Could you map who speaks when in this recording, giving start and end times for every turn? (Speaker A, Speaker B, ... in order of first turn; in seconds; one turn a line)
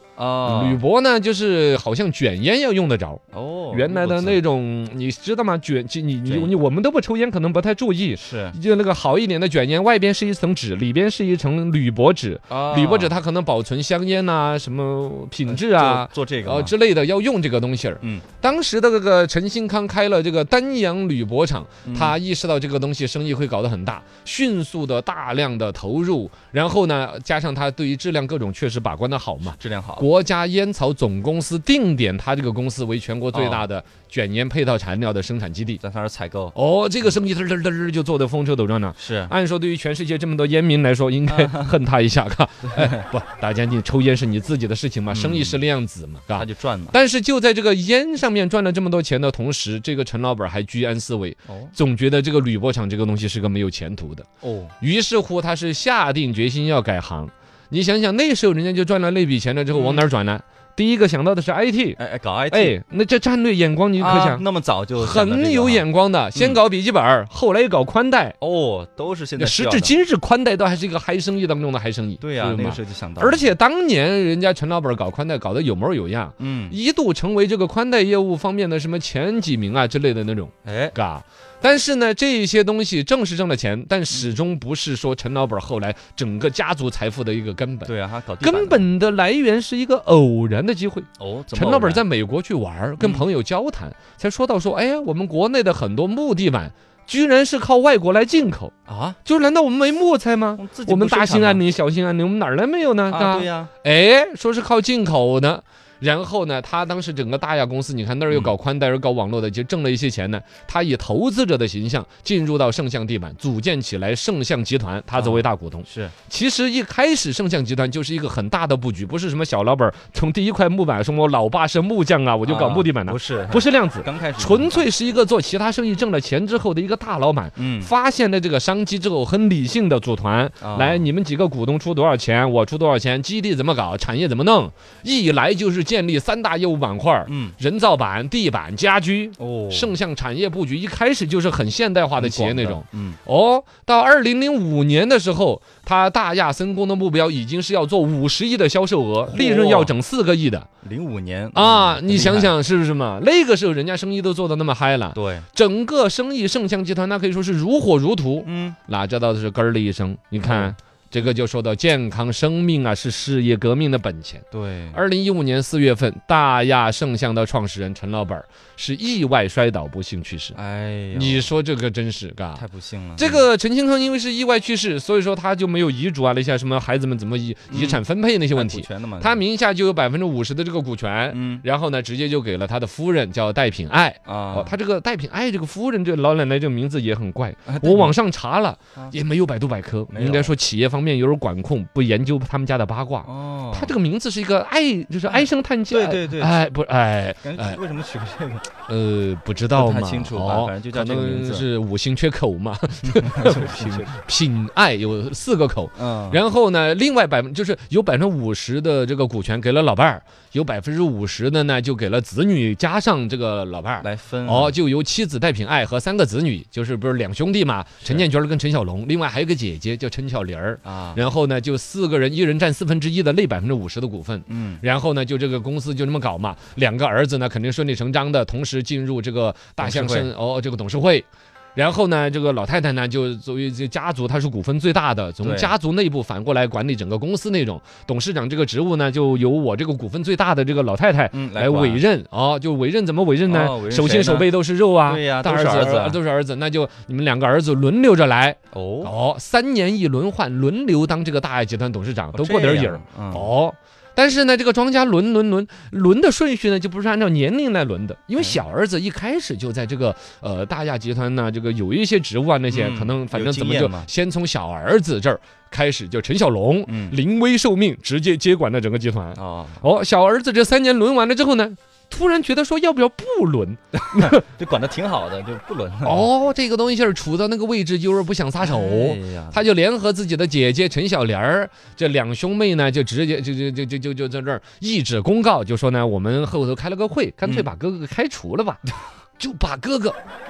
Speaker A: 0.2-0.8
Speaker B: 0.5-35.8
Speaker A: 3.3-4.4
Speaker A: 6.3-6.6
Speaker A: 8.1-8.6
Speaker A: 12.5-13.2
Speaker A: 15.5-16.7
Speaker A: 21.9-22.2
Speaker A: 29.6-30.1
Speaker A: 33.3-33.7
Speaker A: 35.8-37.1
Speaker B: 36.5-54.3
Speaker A: 39.0-39.3
Speaker A: 41.3-41.7
Speaker A: 42.7-43.0
Speaker A: 45.1-45.6
Speaker A: 46.3-47.0
Speaker A: 51.5-51.7
Speaker A: 54.4-54.7
Speaker B: 54.8-62.0
Speaker A: 59.7-60.1
Speaker A: 62.0-62.8
Speaker B: 62.5-64.4
Speaker A: 64.0-66.6
Speaker B: 65.0-68.4
Speaker A: 68.4-70.0
Speaker B: 69.4-98.7
Speaker A: 72.2-73.5
Speaker A: 76.4-76.8
Speaker A: 80.7-81.0
Speaker A: 87.8-88.9
Speaker A: 91.2-92.0
Speaker A: 93.0-93.3
Speaker A: 98.9-99.2
Speaker B: 99.2-150.7
Speaker A: 100.6-101.6
Speaker A: 103.1-103.7
Speaker A: 108.3-108.5
Speaker A: 115.1-116.1
Speaker A: 122.5-124.9
Speaker A: 127.6-127.9
Speaker A: 130.6-131.1
Speaker A: 137.3-137.6
Speaker A: 139.4-139.9
Speaker A: 142.2-143.2
Speaker A: 149.2-149.9
Speaker A: 150.8-152.5
Speaker B: 151.5-170.6
Speaker A: 155.1-155.5
Speaker A: 158.4-158.8
Speaker A: 160.4-160.8
Speaker A: 164.5-165.0
Speaker A: 170.5-171.5
Speaker B: 171.1-172.6
Speaker A: 172.6-173.5
Speaker B: 173.2-197.8
Speaker A: 177.7-179.4
Speaker A: 181.3-181.7
Speaker A: 184.3-184.8
Speaker A: 187.7-188.2
Speaker A: 190.1-190.5
Speaker A: 193.2-194.0
Speaker A: 195.3-196.7
Speaker A: 197.4-198.7
Speaker B: 198.9-274.4
Speaker A: 199.7-201.7
Speaker A: 203.1-204.2
Speaker A: 206.0-206.4
Speaker A: 214.0-214.8
Speaker A: 218.0-218.3
Speaker A: 220.8-221.2
Speaker A: 224.5-224.8
Speaker A: 229.8-230.3
Speaker A: 235.4-235.7
Speaker A: 241.3-242.0
Speaker A: 243.5-244.5
Speaker A: 245.0-246.2
Speaker A: 248.7-249.1
Speaker A: 252.3-253.5
Speaker A: 262.7-264.1
Speaker A: 266.9-267.2
Speaker A: 269.4-269.9
Speaker A: 274.0-276.3
Speaker B: 276.0-288.8
Speaker A: 278.6-279.6
Speaker A: 287.4-287.7
Speaker B: 289.4-290.2